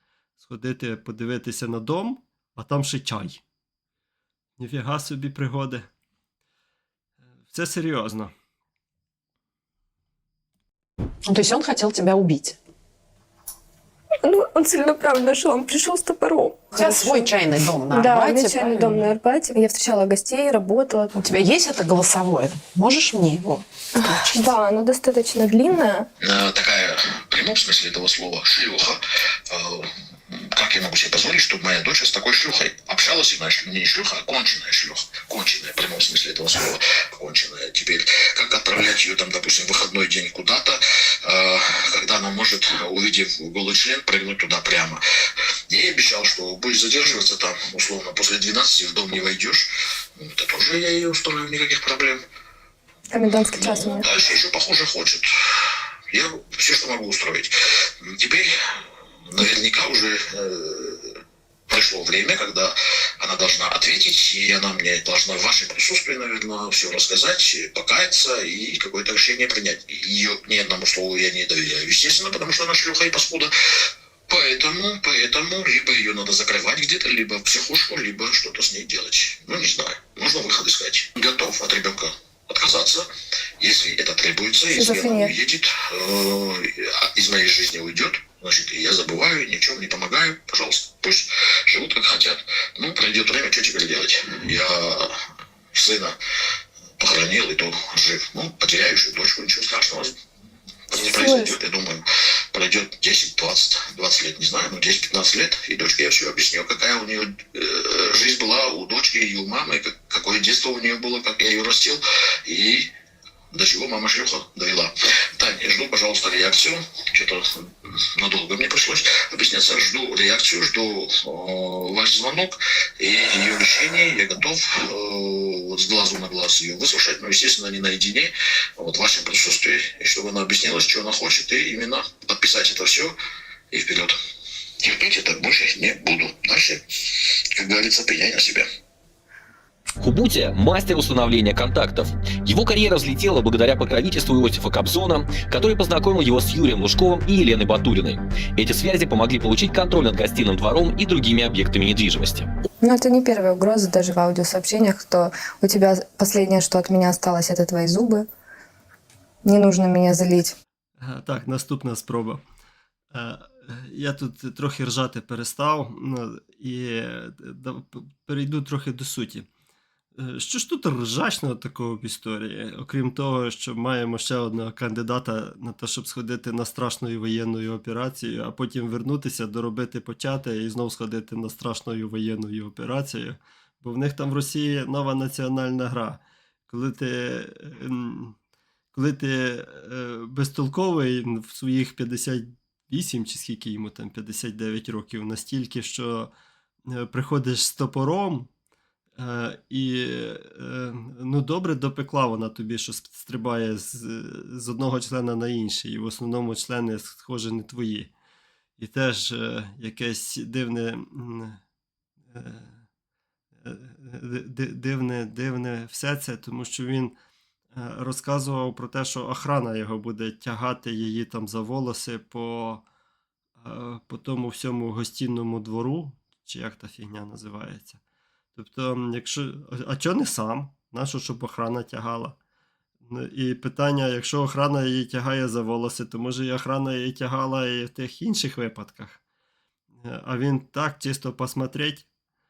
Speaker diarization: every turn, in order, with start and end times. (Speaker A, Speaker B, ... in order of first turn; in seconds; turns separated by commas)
Speaker A: 0.4-3.4, Speaker A: 4.6-5.9, Speaker A: 7.5-8.3, Speaker B: 11.3-12.6, Speaker C: 14.2-16.6, Speaker B: 16.7-19.1, Speaker C: 18.0-20.9, Speaker B: 21.2-23.6, Speaker B: 24.2-24.5, Speaker C: 24.3-26.1, Speaker D: 26.2-45.0, Speaker D: 45.7-52.2, Speaker C: 53.2-54.1, Speaker D: 53.2-57.5, Speaker D: 58.0-61.2, Speaker D: 61.7-73.5, Speaker D: 74.3-83.1, Speaker D: 83.6-95.1, Speaker C: 84.8-85.3, Speaker D: 95.7-96.2, Speaker D: 97.0-100.2, Speaker D: 100.9-112.9, Speaker D: 113.5-117.5, Speaker D: 118.2-133.2, Speaker D: 133.7-134.2, Speaker D: 134.8-138.7, Speaker E: 140.0-152.5, Speaker C: 152.8-158.2, Speaker C: 159.5-160.5, Speaker A: 161.0-162.4, Speaker A: 163.1-169.5, Speaker A: 170.2-188.4, Speaker A: 188.9-196.3, Speaker A: 196.9-198.5, Speaker A: 199.2-208.1, Speaker A: 208.8-211.6, Speaker A: 212.3-212.8, Speaker A: 213.6-217.2, Speaker A: 217.8-222.8, Speaker A: 223.6-228.0, Speaker A: 228.6-232.4, Speaker A: 233.1-239.2, Speaker A: 240.0-242.1